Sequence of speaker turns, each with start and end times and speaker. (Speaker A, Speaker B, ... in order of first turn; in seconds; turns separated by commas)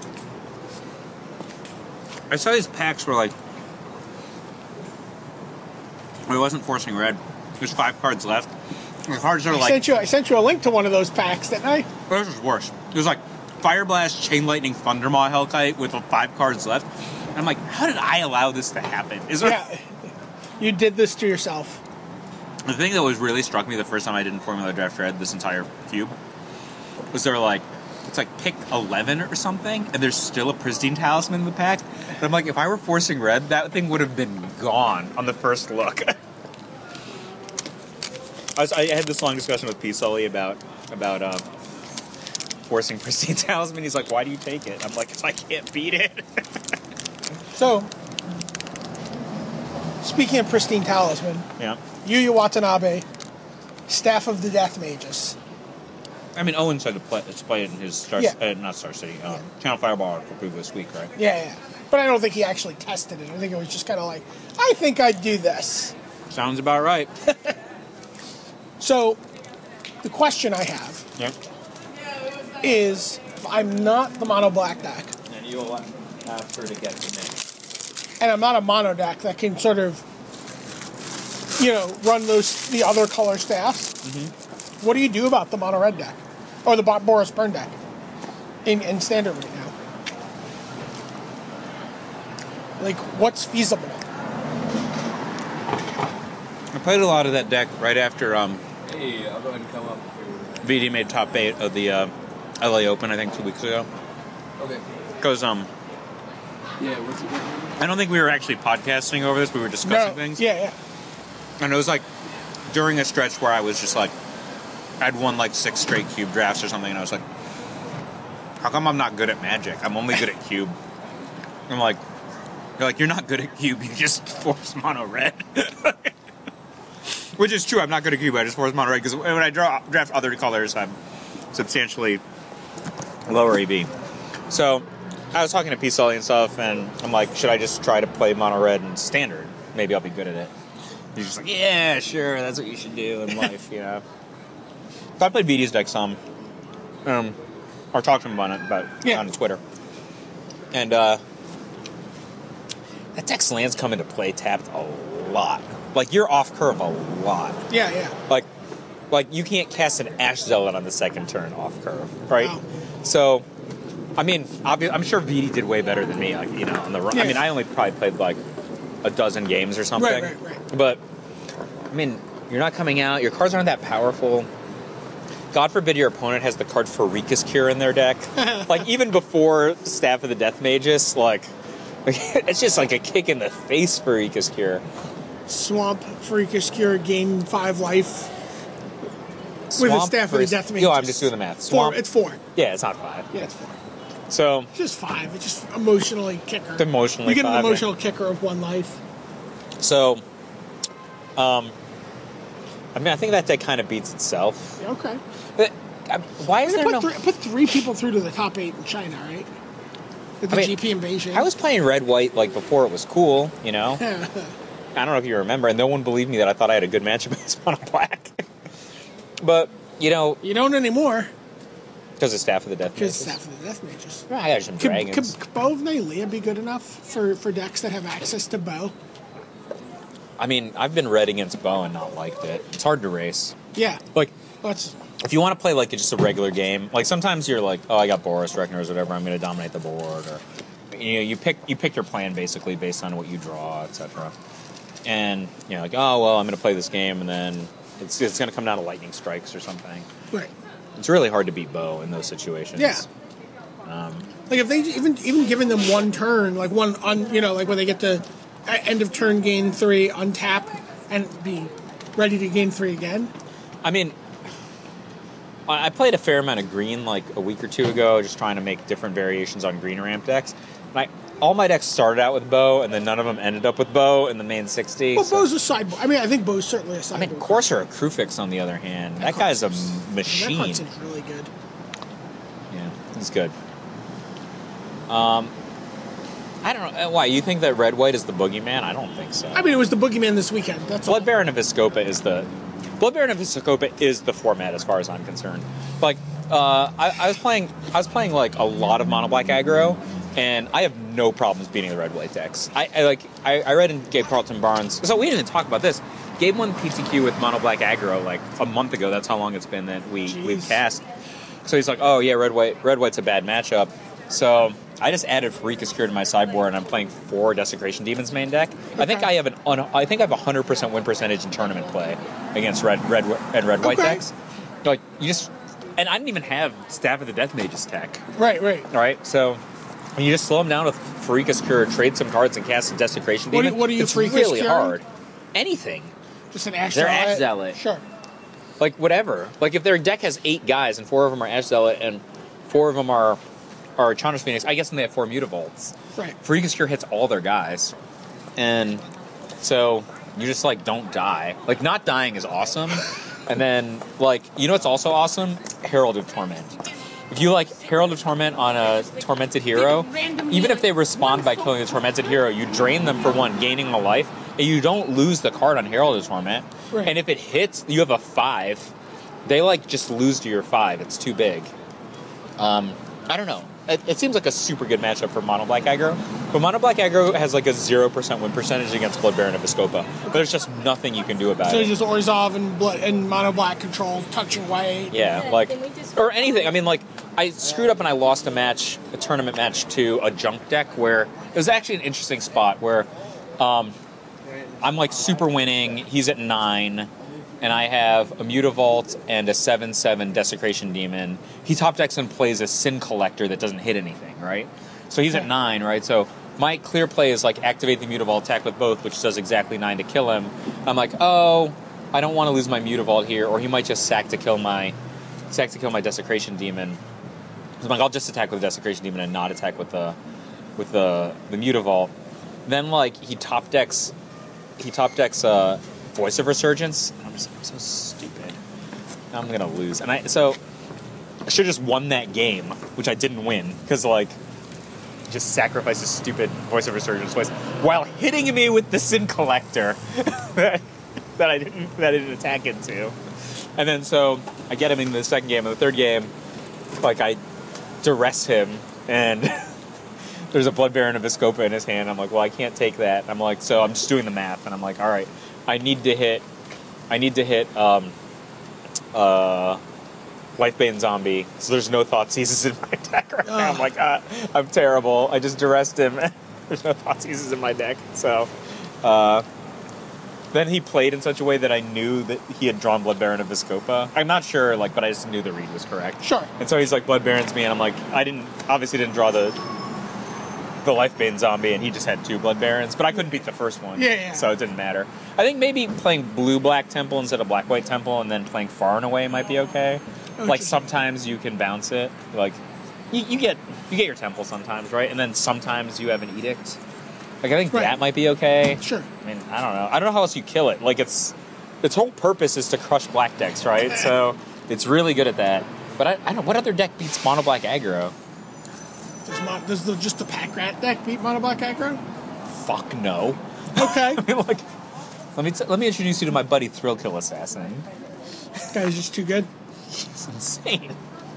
Speaker A: 2.3-3.3, Speaker A: 6.3-8.5, Speaker A: 9.1-9.8, Speaker B: 9.5-11.9, Speaker A: 12.1-19.6, Speaker B: 19.4-19.9, Speaker B: 20.6-21.8, Speaker A: 22.6-26.1, Speaker A: 27.1-36.1, Speaker A: 38.5-41.4, Speaker A: 42.7-46.4, Speaker B: 47.5-47.9, Speaker B: 50.0-51.5, Speaker B: 52.0-53.0, Speaker B: 53.9-55.4, Speaker A: 56.3-61.1, Speaker B: 61.1-65.9, Speaker A: 66.3-67.1, Speaker B: 68.8-69.2, Speaker B: 70.0-71.0, Speaker B: 72.6-75.1, Speaker A: 75.3-77.4, Speaker B: 78.2-80.0, Speaker B: 81.6-84.0, Speaker A: 84.0-84.3, Speaker B: 84.8-87.7, Speaker B: 88.6-89.7, Speaker B: 92.8-94.0, Speaker A: 96.7-98.6, Speaker C: 98.8-100.7, Speaker A: 100.6-103.9, Speaker C: 104.6-104.8, Speaker A: 105.2-105.7, Speaker C: 106.8-107.7, Speaker A: 107.8-110.4, Speaker B: 109.8-110.8, Speaker A: 111.6-112.0, Speaker A: 112.7-114.1, Speaker A: 115.0-117.2, Speaker A: 118.6-120.8, Speaker A: 121.7-122.0, Speaker A: 122.8-126.1, Speaker A: 127.4-131.0, Speaker A: 131.5-132.2, Speaker A: 133.3-133.9, Speaker A: 134.5-140.5, Speaker A: 141.1-144.0, Speaker A: 145.2-146.2, Speaker A: 147.0-147.4, Speaker A: 147.9-149.6, Speaker A: 150.7-151.2, Speaker A: 153.1-157.6, Speaker B: 157.7-158.2, Speaker A: 159.1-163.4, Speaker B: 162.4-162.6, Speaker A: 164.2-168.4, Speaker B: 167.1-167.5, Speaker A: 169.0-171.0, Speaker B: 169.9-170.6, Speaker A: 171.9-174.5, Speaker A: 175.5-181.5, Speaker B: 178.4-178.7, Speaker A: 182.0-184.8, Speaker B: 185.5-188.3, Speaker A: 189.7-192.0, Speaker B: 189.8-192.4, Speaker A: 192.5-193.4, Speaker B: 193.3-193.8, Speaker A: 194.3-194.7, Speaker B: 194.7-199.0, Speaker A: 196.8-197.9, Speaker A: 199.8-200.2, Speaker A: 201.4-201.7, Speaker A: 202.9-204.8, Speaker B: 204.8-205.2, Speaker A: 205.6-207.1, Speaker B: 206.6-209.5, Speaker B: 210.4-211.5, Speaker A: 210.5-210.8, Speaker A: 211.3-214.0, Speaker B: 214.0-214.5, Speaker A: 214.9-218.4, Speaker A: 219.4-220.4, Speaker B: 220.4-221.3, Speaker A: 222.2-223.4, Speaker B: 222.9-224.3, Speaker A: 224.3-225.3, Speaker B: 224.8-228.9, Speaker A: 230.4-233.5, Speaker B: 233.7-234.0, Speaker B: 234.6-234.9, Speaker A: 235.2-244.3, Speaker A: 245.0-250.1, Speaker A: 251.0-253.1, Speaker B: 252.8-253.0, Speaker A: 253.8-254.3, Speaker B: 254.5-263.3, Speaker A: 263.8-264.1, Speaker A: 265.7-275.5, Speaker B: 275.1-277.7, Speaker A: 277.1-280.9, Speaker B: 279.2-281.5, Speaker A: 282.7-283.5, Speaker A: 285.1-285.5, Speaker A: 286.6-289.6, Speaker B: 289.5-291.3, Speaker A: 291.1-311.0, Speaker B: 310.2-310.8, Speaker A: 311.6-324.3, Speaker B: 319.0-319.3, Speaker B: 323.8-324.2, Speaker A: 324.8-328.2, Speaker B: 328.3-328.9, Speaker A: 328.9-329.6, Speaker A: 330.1-336.1, Speaker B: 333.5-335.0, Speaker B: 336.5-338.0, Speaker A: 336.9-337.8, Speaker A: 338.8-343.4, Speaker A: 344.0-347.9, Speaker A: 348.6-349.0, Speaker A: 349.6-356.7, Speaker A: 357.3-368.9, Speaker B: 360.1-360.6, Speaker A: 369.4-371.7, Speaker A: 372.6-381.9, Speaker B: 381.6-385.2, Speaker A: 385.1-393.9, Speaker A: 394.8-397.1, Speaker A: 397.6-414.9, Speaker A: 415.5-417.0, Speaker A: 417.8-420.2, Speaker A: 420.8-422.1, Speaker A: 422.6-424.1, Speaker A: 424.8-428.6, Speaker A: 429.3-430.6, Speaker A: 431.4-434.4, Speaker A: 435.3-440.8, Speaker A: 441.4-443.1, Speaker A: 443.8-446.3, Speaker A: 447.0-447.4, Speaker A: 448.0-449.7, Speaker A: 450.5-456.4, Speaker A: 457.1-458.1, Speaker A: 459.1-459.8, Speaker A: 460.6-468.5, Speaker B: 463.4-463.9, Speaker A: 469.0-469.4, Speaker A: 470.5-479.6, Speaker B: 476.2-476.5, Speaker A: 480.8-496.8, Speaker B: 483.9-484.5, Speaker B: 490.4-490.9, Speaker A: 497.4-508.1, Speaker B: 497.7-498.0, Speaker B: 498.8-499.1, Speaker B: 509.2-512.0, Speaker A: 512.5-514.6, Speaker B: 513.7-514.2, Speaker A: 515.3-517.9, Speaker B: 518.7-519.5, Speaker A: 519.9-521.0